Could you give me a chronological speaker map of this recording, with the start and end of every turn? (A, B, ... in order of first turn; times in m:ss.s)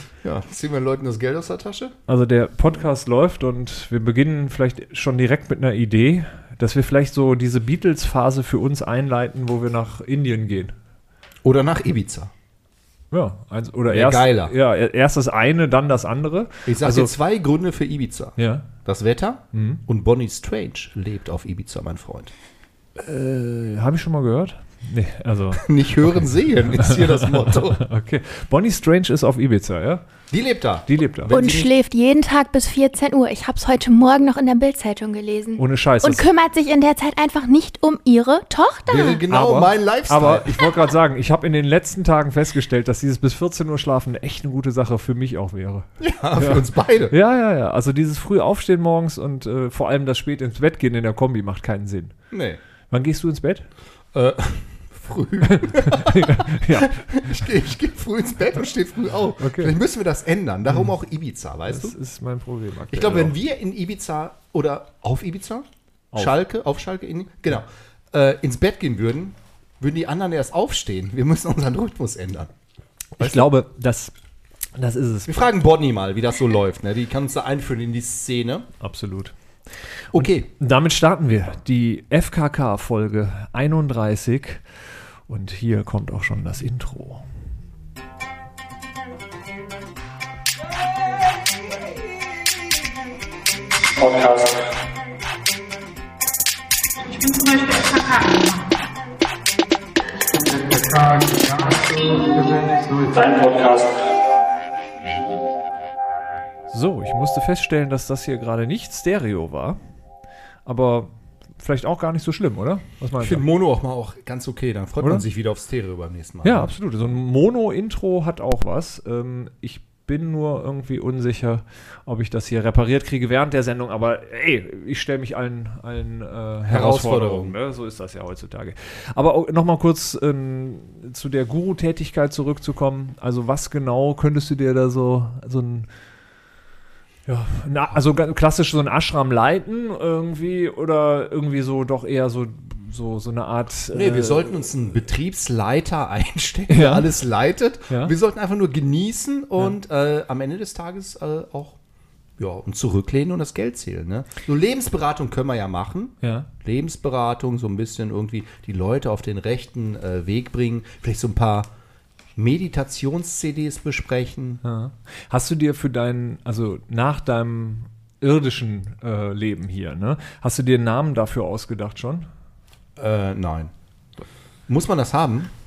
0:00.2-0:02.0 A
0:02.1-0:10.8 B
0:11.4-0:12.3 A
0:13.1-0:17.1 B
0:13.9-0:14.5 A
0:16.6-0:22.3 A
0:18.4-0:18.7 B
0:19.5-0:19.8 B
0:23.0-0:30.0 B
0:25.5-0:27.8 A
0:30.3-0:31.7 A
0:30.9-0:31.4 B
0:31.3-0:39.2 C
0:35.6-0:36.2 B
0:38.9-0:40.6 A
0:39.3-0:52.2 B
0:46.0-0:47.2 A
0:52.3-0:52.6 A
0:52.9-0:53.7 B
0:54.1-1:02.0 A
0:55.4-0:57.5 B
0:59.4-0:59.8 B
1:00.7-1:00.9 B
1:01.7-1:03.3 B
1:02.9-1:12.5 A
1:13.2-1:13.4 A
1:13.2-1:14.1 B
1:14.8-1:15.5 B
1:15.3-1:18.7 A
1:18.8-1:19.3 B
1:20.1-1:20.5 A
1:20.1-1:24.7 B
1:25.3-1:27.3 B
1:33.9-1:34.7 D
1:37.0-1:38.7 D
1:40.3-1:44.1 D
1:46.7-1:49.8 B
1:50.7-1:53.4 B
1:53.2-1:56.7 A
1:55.0-1:55.3 B
1:56.4-2:15.9 B
2:06.6-2:07.6 A
2:17.2-2:24.8 B
2:23.9-2:31.8 A
2:26.7-2:27.1 B
2:27.9-2:28.1 B
2:32.4-2:41.7 A
2:36.2-2:36.5 B
2:42.4-2:44.6 A
2:44.6-2:52.3 B
2:53.0-2:53.7 A
2:54.7-2:55.5 A